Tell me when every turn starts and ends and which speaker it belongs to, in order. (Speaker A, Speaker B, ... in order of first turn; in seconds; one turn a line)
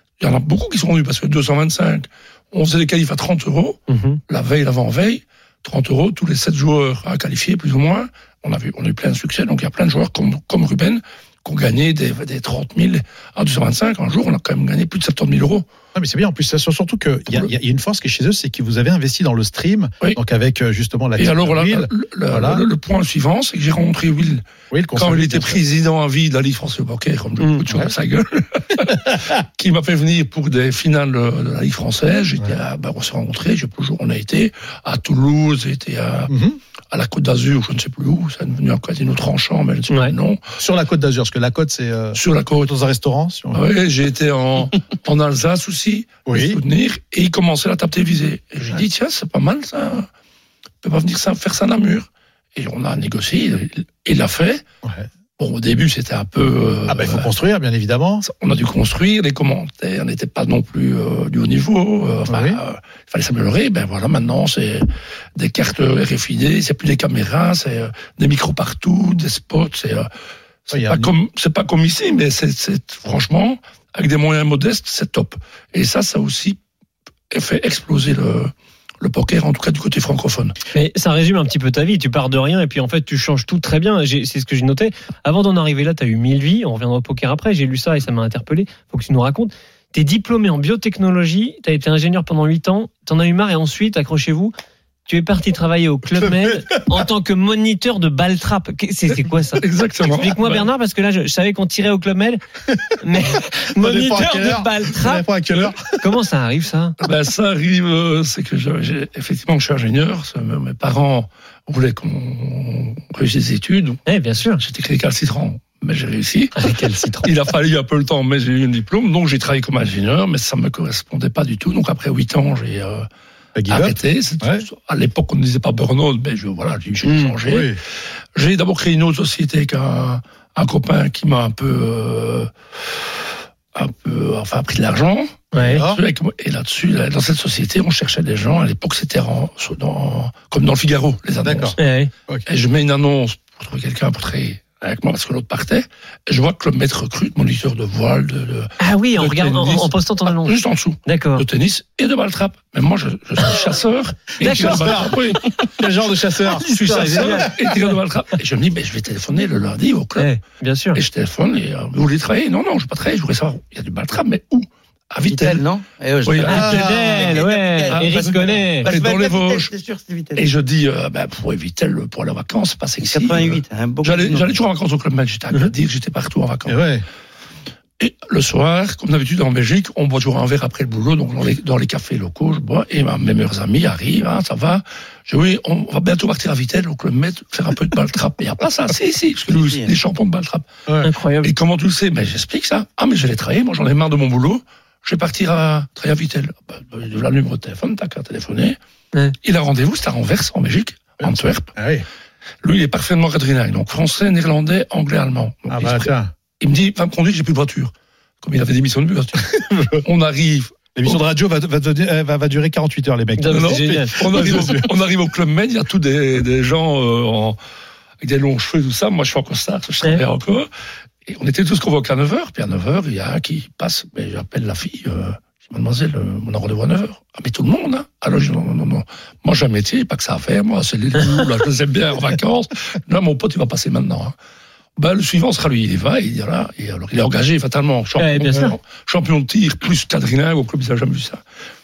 Speaker A: 0.2-15.7
Speaker B: 3.9-4.2
Speaker C: 15.9-22.6
Speaker A: 21.2-24.4
Speaker C: 24.7-25.6
Speaker A: 25.0-36.3
Speaker C: 27.7-27.9
Speaker C: 36.3-36.6
Speaker A: 36.9-40.4
Speaker B: 39.9-40.1
Speaker C: 40.6-43.6
Speaker A: 42.1-42.7
Speaker A: 43.5-50.1
Speaker C: 46.3-46.6
Speaker A: 50.8-54.6
Speaker A: 55.4-57.3
Speaker C: 56.9-58.2
Speaker A: 58.2-70.1
Speaker C: 62.3-62.6
Speaker A: 70.7-76.6
Speaker C: 70.7-71.1
Speaker A: 77.3-80.6
Speaker B: 80.7-94.5
Speaker B: 95.1-102.4
Speaker C: 96.2-97.0
Speaker A: 99.6-100.7
Speaker B: 103.0-105.3
Speaker C: 103.5-106.1
Speaker B: 106.0-107.0
Speaker A: 107.0-114.1
Speaker B: 114.1-114.6
Speaker A: 114.6-123.1
Speaker B: 116.6-117.3
Speaker C: 123.5-124.7
Speaker A: 123.7-127.8
Speaker B: 127.0-127.3
Speaker C: 127.4-127.8
Speaker A: 128.4-133.0
Speaker A: 133.7-141.8
Speaker B: 135.5-135.8
Speaker C: 135.7-136.0
Speaker C: 141.4-141.8
Speaker B: 141.8-142.1
Speaker A: 142.5-155.7
Speaker B: 148.8-151.4
Speaker B: 154.4-155.0
Speaker C: 154.4-157.5
Speaker B: 156.6-157.6
Speaker A: 156.6-160.3
Speaker B: 160.2-161.0
Speaker A: 160.9-165.6
Speaker D: 165.3-170.4
Speaker A: 166.2-166.8
Speaker B: 166.5-168.9
Speaker C: 166.5-167.3
Speaker A: 167.9-169.7
Speaker A: 170.4-176.8
Speaker D: 173.0-174.5
Speaker C: 176.7-177.1
Speaker A: 178.0-190.7
Speaker D: 189.4-189.9
Speaker B: 191.0-191.5
Speaker A: 191.4-198.8
Speaker A: 199.4-201.7
Speaker C: 201.2-202.1
Speaker A: 202.6-211.2
Speaker C: 205.7-206.3
Speaker C: 209.5-210.0
Speaker C: 210.9-214.9
Speaker B: 213.4-214.6
Speaker A: 213.5-217.6
Speaker A: 218.2-220.7
Speaker A: 221.3-234.3
Speaker A: 235.0-241.4
Speaker B: 238.2-238.8